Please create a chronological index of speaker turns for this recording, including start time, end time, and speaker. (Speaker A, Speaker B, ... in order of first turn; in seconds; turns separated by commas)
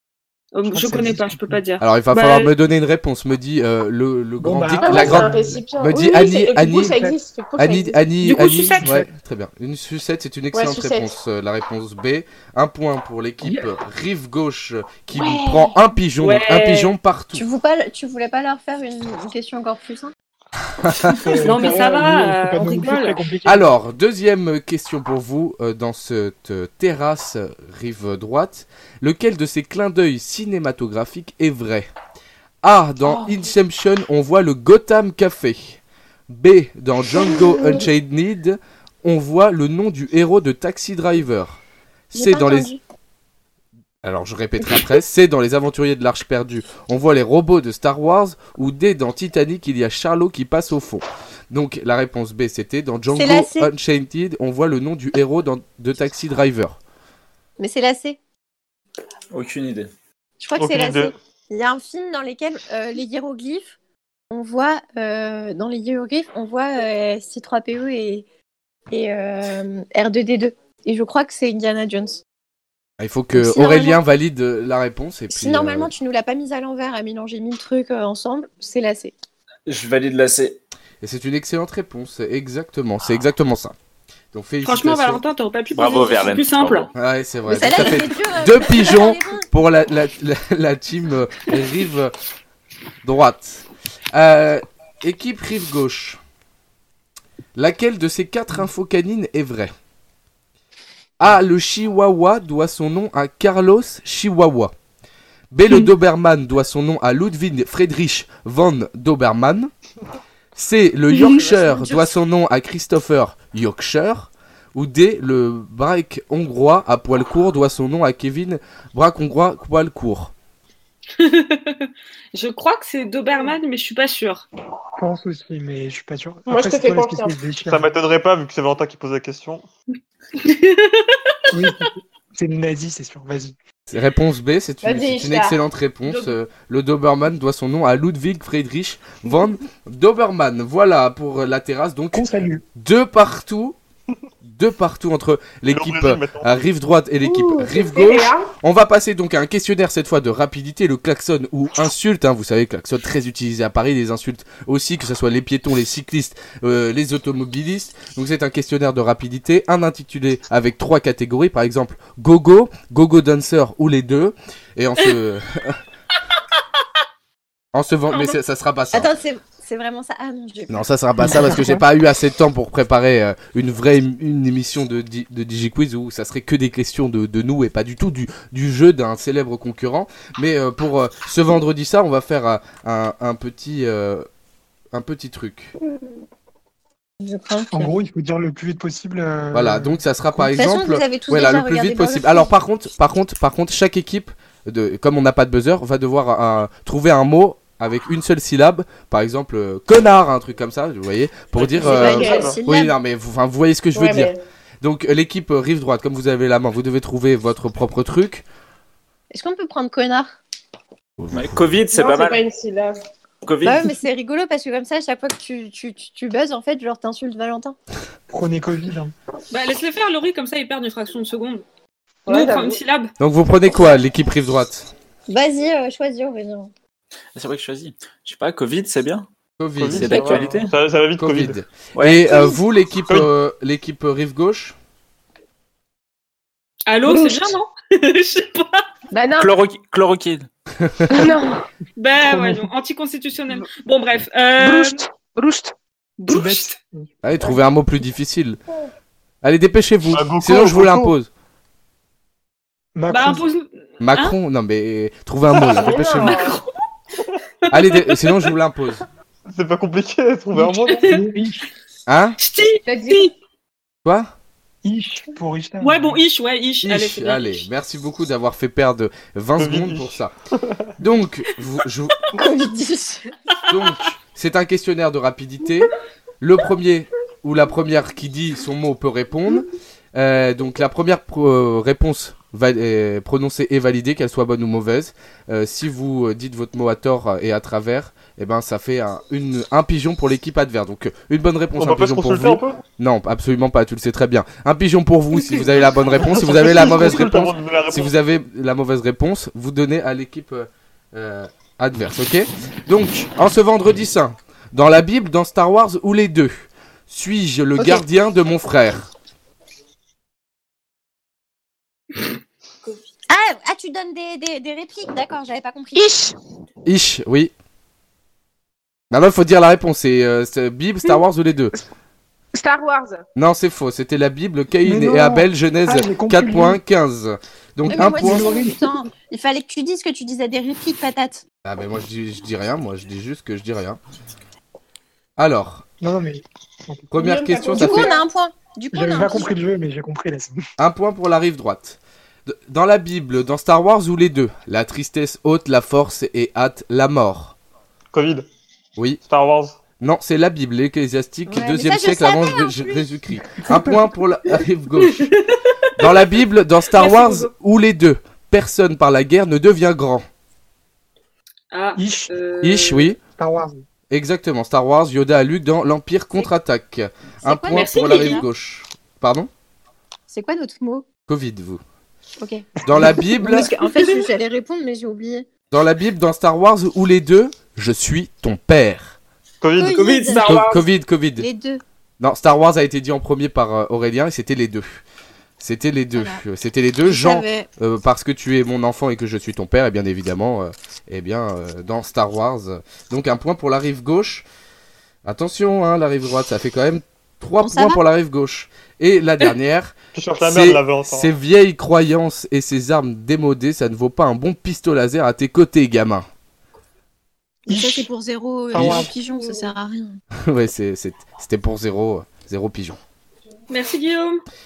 Speaker A: 0.5-2.5, Speaker B: 0.7-1.6, Speaker C: 1.8-17.4, Speaker B: 4.4-5.7, Speaker D: 4.8-8.0, Speaker B: 6.9-7.2, Speaker A: 8.2-8.9, Speaker B: 8.3-9.1, Speaker D: 10.5-11.1, Speaker D: 15.2-15.8, Speaker A: 16.2-16.9, Speaker E: 17.3-20.1, Speaker C: 20.8-21.4, Speaker B: 21.1-23.7, Speaker A: 21.4-23.2, Speaker C: 23.4-31.9, Speaker C: 32.6-42.7, Speaker D: 37.3-37.8, Speaker E: 42.1-42.8, Speaker C: 44.0-56.8, Speaker E: 53.1-53.7, Speaker E: 57.6-58.2, Speaker F: 59.3-59.9, Speaker E: 60.4-63.7, Speaker G: 60.6-61.1, Speaker E: 64.3-68.2, Speaker E: 68.9-72.2, Speaker C: 73.0-75.9, Speaker E: 73.3-74.0, Speaker E: 75.3-79.1, Speaker F: 79.7-80.6, Speaker C: 81.0-83.7, Speaker C: 84.3-85.2, Speaker A: 84.6-86.9, Speaker F: 85.7-86.9, Speaker C: 87.0-92.1, Speaker E: 87.5-89.5, Speaker C: 93.0-96.2, Speaker C: 97.5-99.7, Speaker C: 101.2-104.7, Speaker C: 105.5-109.7, Speaker C: 110.5-120.3, Speaker A: 111.1-112.0, Speaker A: 121.2-124.5, Speaker B: 125.0-127.9, Speaker D: 126.5-127.4, Speaker G: 127.7-129.7, Speaker A: 130.3-131.4, Speaker B: 131.5-133.5, Speaker C: 133.9-143.8, Speaker D: 134.8-135.6, Speaker B: 142.1-142.6, Speaker C: 144.4-165.8, Speaker G: 145.7-146.6, Speaker D: 147.2-148.5, Speaker C: 167.7-169.1, Speaker E: 168.9-171.5, Speaker C: 170.7-184.3, Speaker B: 171.2-171.8, Speaker C: 184.9-185.7, Speaker E: 187.2-187.9, Speaker B: 187.7-190.0, Speaker C: 189.5-208.4, Speaker E: 190.4-192.5, Speaker G: 201.6-202.6, Speaker E: 201.8-202.9, Speaker D: 201.9-202.5, Speaker D: 203.9-204.4, Speaker E: 209.3-210.4, Speaker C: 211.2-211.7, Speaker F: 211.3-212.4, Speaker D: 211.9-213.0, Speaker F: 213.4-213.9, Speaker E: 213.6-217.8, Speaker B: 218.3-219.1, Speaker A: 219.5-221.6, Speaker D: 222.2-222.8, Speaker A: 222.2-223.1, Speaker C: 223.2-224.9, Speaker E: 225.3-226.7, Speaker F: 227.3-229.3, Speaker C: 229.6-230.5, Speaker G: 229.8-231.6, Speaker F: 229.9-230.7, Speaker C: 231.2-234.8, Speaker F: 231.9-232.3, Speaker A: 236.8-238.8, Speaker D: 237.1-237.5, Speaker D: 239.1-239.5, Speaker F: 239.4-240.5, Speaker C: 240.8-241.2, Speaker D: 241.1-241.7, Speaker A: 242.0-245.0, Speaker B: 242.2-242.7, Speaker D: 245.4-245.7, Speaker A: 246.2-246.7, Speaker B: 246.3-247.1, Speaker C: 247.2-248.6, Speaker C: 249.4-251.3, Speaker G: 250.1-251.1, Speaker B: 252.9-253.4, Speaker A: 253.1-254.3, Speaker C: 254.0-256.4, Speaker D: 255.6-256.6, Speaker A: 256.2-256.6, Speaker A: 257.7-258.5, Speaker C: 257.7-259.0, Speaker G: 259.5-261.2, Speaker B: 260.5-261.6, Speaker C: 262.1-262.4, Speaker A: 262.4-263.3, Speaker D: 262.9-263.3, Speaker C: 264.0-264.3, Speaker B: 264.8-266.2, Speaker A: 265.8-267.6, Speaker C: 266.8-270.3, Speaker G: 269.6-270.2, Speaker C: 271.0-272.2, Speaker E: 272.3-273.3, Speaker C: 273.7-309.1, Speaker G: 291.8-292.8, Speaker G: 296.2-298.1, Speaker E: 307.8-308.0, Speaker E: 313.3-316.1, Speaker D: 315.9-316.3, Speaker C: 316.9-317.5, Speaker C: 319.1-321.8, Speaker D: 322.5-323.2, Speaker C: 323.4-328.5, Speaker B: 324.8-326.8, Speaker E: 327.9-331.4, Speaker B: 327.9-328.8, Speaker C: 331.6-334.0, Speaker C: 335.4-335.8, Speaker B: 336.0-337.1, Speaker C: 337.1-338.1, Speaker D: 337.2-338.2, Speaker E: 337.7-339.5, Speaker B: 338.9-340.6, Speaker C: 340.8-347.5, Speaker G: 348.1-348.4, Speaker G: 349.2-349.8, Speaker C: 350.0-355.3, Speaker E: 351.5-353.0, Speaker B: 353.5-354.0, Speaker A: 355.0-356.1, Speaker C: 356.0-360.2, Speaker A: 356.9-357.5, Speaker A: 361.7-363.1, Speaker B: 362.0-362.3, Speaker C: 362.6-363.2, Speaker B: 363.4-363.8, Speaker C: 364.1-369.5, Speaker E: 367.4-368.4, Speaker A: 367.7-368.4, Speaker E: 370.3-371.1, Speaker C: 371.3-371.8, Speaker E: 372.4-375.5, Speaker C: 372.8-373.7, Speaker B: 372.9-373.2, Speaker C: 375.7-379.2, Speaker G: 379.6-380.7, Speaker E: 379.8-380.5, Speaker F: 380.3-380.6, Speaker C: 380.4-381.5, Speaker E: 381.4-381.8, Speaker C: 382.2-385.0, Speaker C: 385.6-394.4, Speaker E: 386.1-386.4, Speaker E: 387.0-387.7, Speaker C: 395.2-406.2, Speaker E: 397.6-398.0, Speaker G: 400.1-401.3, Speaker B: 407.7-408.1, Speaker E: 407.7-410.2, Speaker B: 408.7-409.1, Speaker C: 408.7-409.1, Speaker C: 410.4-413.0, Speaker A: 413.7-414.4